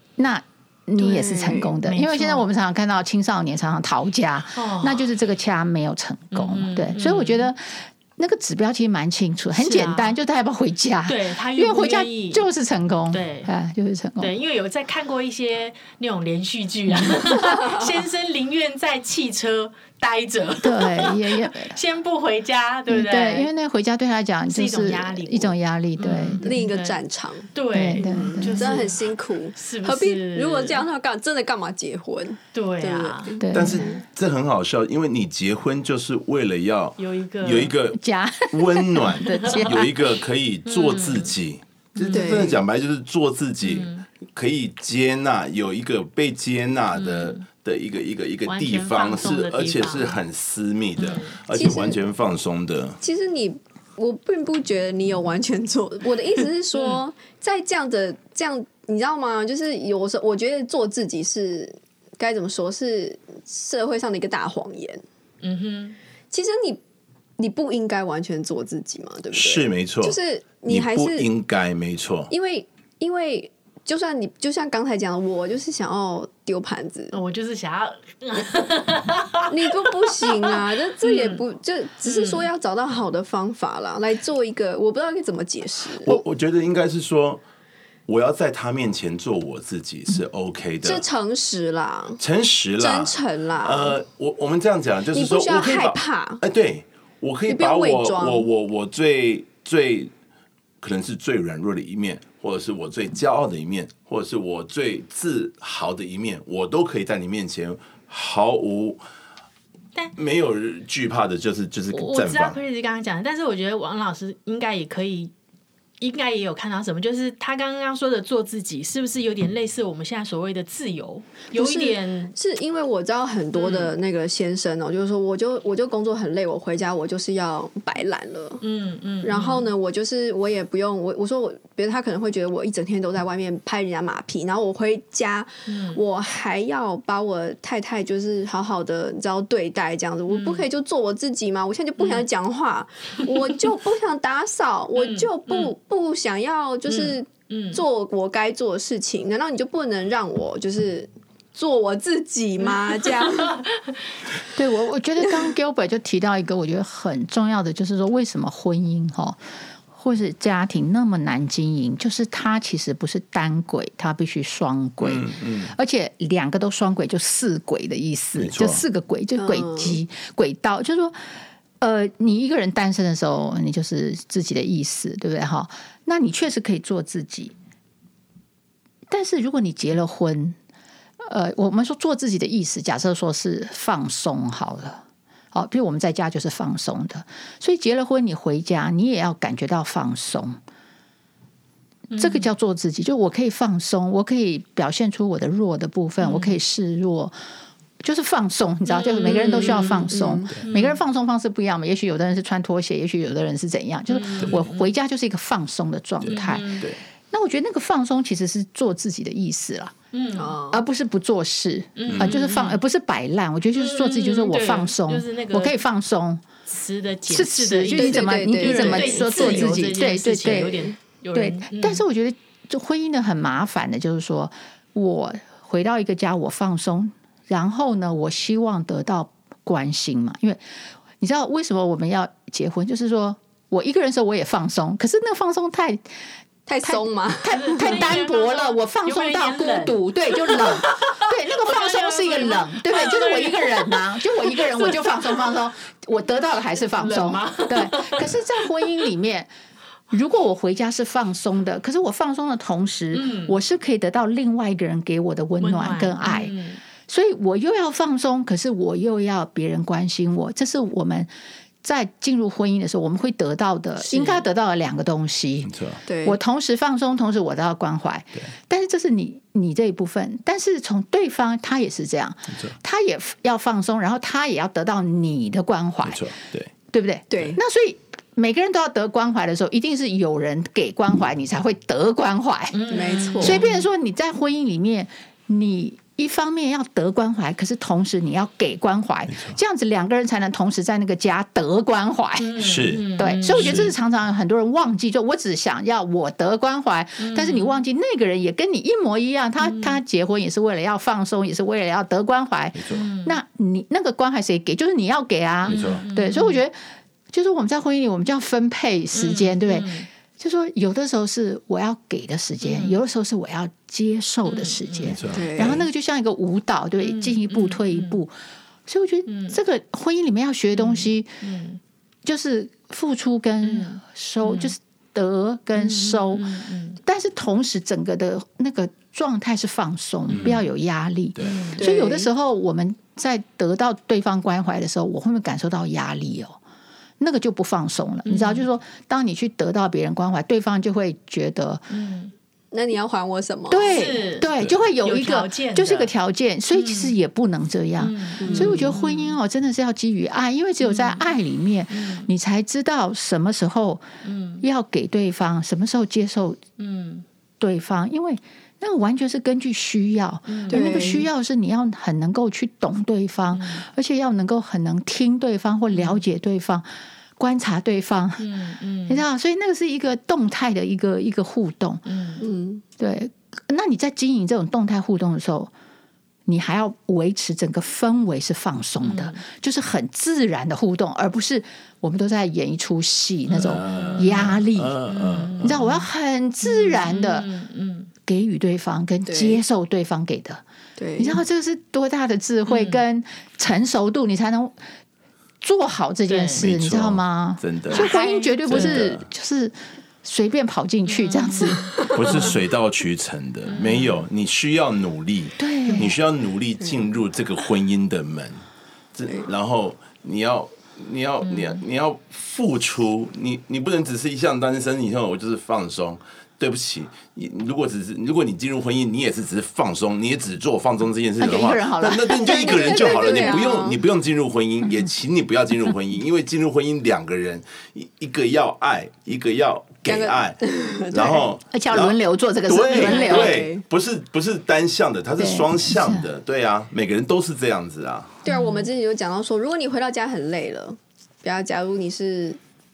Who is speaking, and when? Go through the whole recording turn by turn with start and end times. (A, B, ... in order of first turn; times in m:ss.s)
0:00.2-0:14.3 A
0:01.0-0:01.8 B
0:01.8-0:02.4 C
0:04.5-0:05.1 C
0:06.3-0:07.5 C
0:09.5-0:10.2 C
0:11.1-0:12.5 C
0:13.1-0:13.5 C
0:14.2-0:23.5 C
0:17.5-0:17.8 B
0:20.6-0:21.8 A
0:22.9-0:26.6 A
0:24.5-0:27.0 C
0:26.4-0:34.0 B
0:27.5-0:30.8 C
0:27.7-0:28.8 A
0:32.5-0:33.4 C
0:33.4-0:33.9 A
0:33.5-0:38.0 D
0:37.0-0:37.7 C
0:37.9-0:40.1 A
0:38.5-0:53.0 D
0:39.4-0:39.6 C
0:40.6-0:41.3 C
0:42.0-0:42.5 C
0:42.1-0:42.6 B
0:43.6-0:44.0 C
0:47.0-0:47.4 C
0:48.4-0:50.2 C
0:51.0-0:51.4 C
0:51.5-0:52.0 B
0:53.0-1:05.0 B
1:05.4-1:06.0 C
1:06.3-1:06.8 B
1:07.4-1:11.3 B
1:09.3-1:12.3 D
1:12.3-1:17.2 B
1:17.1-1:21.4 C
1:19.5-1:26.2 B
1:22.0-1:22.5 C
1:26.0-1:27.4 D
1:28.1-1:31.0 D
1:30.8-1:32.2 B
1:32.2-1:40.1 D
1:32.8-1:34.0 B
1:35.1-1:36.4 B
1:37.5-1:38.5 B
1:40.8-1:49.0 D
1:50.2-1:52.6 D
1:51.9-1:55.3 C
1:56.0-2:02.3 C
2:01.5-2:08.6 B
2:03.5-2:03.9 C
2:08.6-2:09.7 C
2:09.2-2:33.6 B
2:15.7-2:16.0 C
2:20.3-2:20.7 C
2:22.0-2:22.2 C
2:25.0-2:25.7 C
2:26.9-2:27.8 C
2:33.0-2:34.0 C
2:34.5-2:39.4 A
2:39.9-2:57.5 A
2:45.0-2:45.7 D
2:48.4-2:48.8 D
2:49.4-2:50.0 B
2:59.1-3:00.6 A
3:01.2-3:10.6 A
3:12.1-3:12.5 C
3:12.2-3:17.4 A
3:16.2-3:16.6 C
3:18.0-3:29.9 A
3:18.8-3:21.0 C
3:20.1-3:20.5 B
3:24.1-3:24.9 C
3:26.2-3:27.0 D
3:26.3-3:26.9 C
3:30.1-3:30.5 C
3:30.3-3:30.8 B
3:30.7-3:36.4 A
3:32.0-3:32.8 C
3:32.1-3:32.3 D
3:33.7-3:35.8 C
3:36.7-3:42.0 C
3:37.3-3:50.6 A
3:37.9-3:39.9 B
3:51.2-3:56.0 A
3:56.7-3:58.0 B
3:56.8-4:09.5 A
3:57.5-4:05.5 C
4:06.9-4:09.0 C
4:10.1-4:16.5 A
4:13.1-4:13.6 C
4:15.6-4:16.8 C
4:17.1-4:21.3 A
4:21.8-4:25.7 A
4:24.0-4:24.4 C
4:25.6-4:26.0 D
4:26.0-4:26.4 B
4:26.2-4:36.3 A
4:36.0-4:36.7 D
4:36.9-4:52.6 A
4:37.3-4:37.6 B
4:42.7-4:43.8 C
4:42.9-4:43.6 B
4:52.4-4:53.9 C
4:52.6-4:53.9 D
4:53.2-5:06.8 A
4:57.2-4:57.8 C
4:59.6-5:00.0 C
5:02.8-5:03.0 D
5:02.9-5:03.4 C
5:05.6-5:06.0 D
5:05.7-5:06.6 C
5:07.3-5:18.3 A
5:09.1-5:10.1 C
5:12.6-5:13.0 C
5:14.4-5:15.2 C
5:15.0-5:15.8 D
5:15.3-5:15.8 B
5:17.0-5:18.2 C
5:18.9-5:21.4 A
5:19.3-5:19.6 C
5:20.7-5:21.8 C
5:22.2-5:36.6 A
5:23.6-5:24.7 C
5:25.8-5:27.0 C
5:30.3-5:30.6 D
5:31.4-5:31.6 D
5:31.4-5:31.8 C
5:31.8-5:32.3 B
5:37.2-5:41.9 A
5:38.2-5:38.6 C
5:41.9-5:42.3 C
5:42.7-5:44.0 B
5:43.7-5:54.0 A
5:43.8-5:44.5 C
5:45.0-5:46.1 C
5:46.7-5:47.1 C
5:48.0-5:49.4 C
5:48.4-5:48.8 B
5:50.8-5:51.3 C
5:51.9-5:52.3 C
5:54.2-5:54.6 C
5:54.6-5:56.6 A
5:56.8-5:57.2 C
5:57.6-6:06.8 A
6:00.5-6:00.9 C
6:00.7-6:01.3 B
6:03.5-6:03.8 C
6:05.9-6:06.2 C
6:07.4-6:08.5 A
6:08.4-6:09.2 C
6:09.1-6:12.4 A
6:12.0-6:12.4 C
6:12.4-6:12.8 B
6:13.0-6:15.7 A
6:16.4-6:25.0 A
6:19.0-6:19.4 C
6:23.5-6:25.8 D
6:23.9-6:24.5 C
6:25.1-6:26.0 C
6:25.6-6:27.5 A
6:26.6-6:28.1 C
6:28.3-6:30.6 A
6:29.2-6:29.6 B
6:31.0-6:31.4 B
6:31.2-6:34.8 A
6:32.7-6:33.0 C
6:35.6-6:41.9 A
6:36.3-6:36.6 C
6:36.5-6:38.1 D
6:37.9-6:39.0 C
6:38.6-6:39.2 D
6:41.0-6:42.0 C
6:42.1-6:48.6 D
6:43.7-6:44.2 C
6:45.6-6:46.2 A
6:46.8-6:47.1 B
6:49.1-7:18.4 D
6:51.4-6:51.8 C
7:01.4-7:03.6 A
7:02.3-7:04.0 B
7:04.8-7:05.1 A
7:10.0-7:11.5 B
7:11.7-7:13.6 A
7:12.9-7:13.8 B
7:15.4-7:16.3 A
7:18.4-7:22.6 B
7:18.4-7:18.9 C